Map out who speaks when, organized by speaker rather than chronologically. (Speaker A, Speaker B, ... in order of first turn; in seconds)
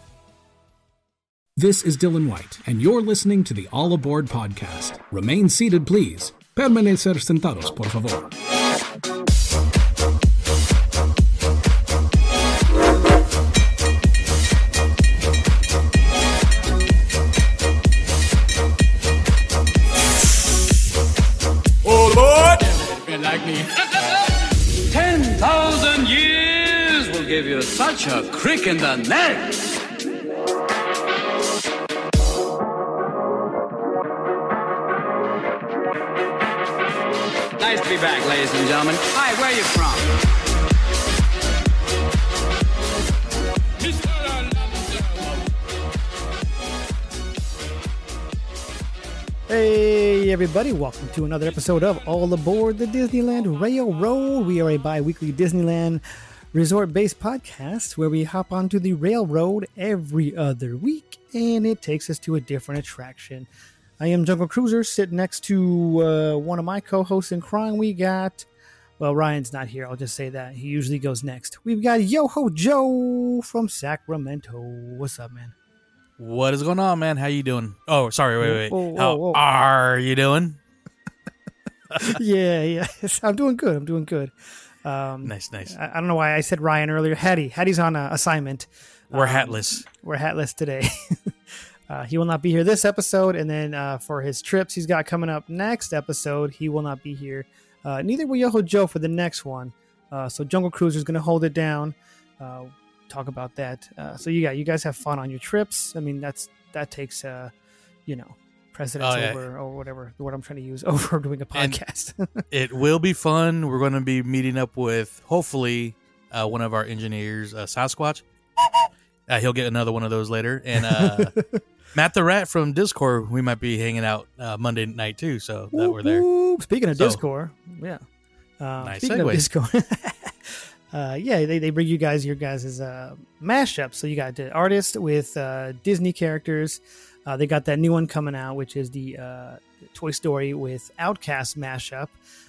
Speaker A: 1.6-8.3
Speaker B: 21.8-29.8, 37.6-40.1, 43.8-45.5
Speaker C: 49.5-56.0, 56.5-63.5, 64.0-68.5, 69.0-75.5, 78.4-79.4, 81.9-84.3, 84.8-107.5, 108.1-112.5, 121.0-121.6, 125.7-128.0, 128.6-142.2
Speaker D: 76.2-80.6, 85.2-85.7, 89.1-89.8, 109.0-109.4, 112.5-118.2, 119.3-121.3, 121.9-126.2, 128.8-129.5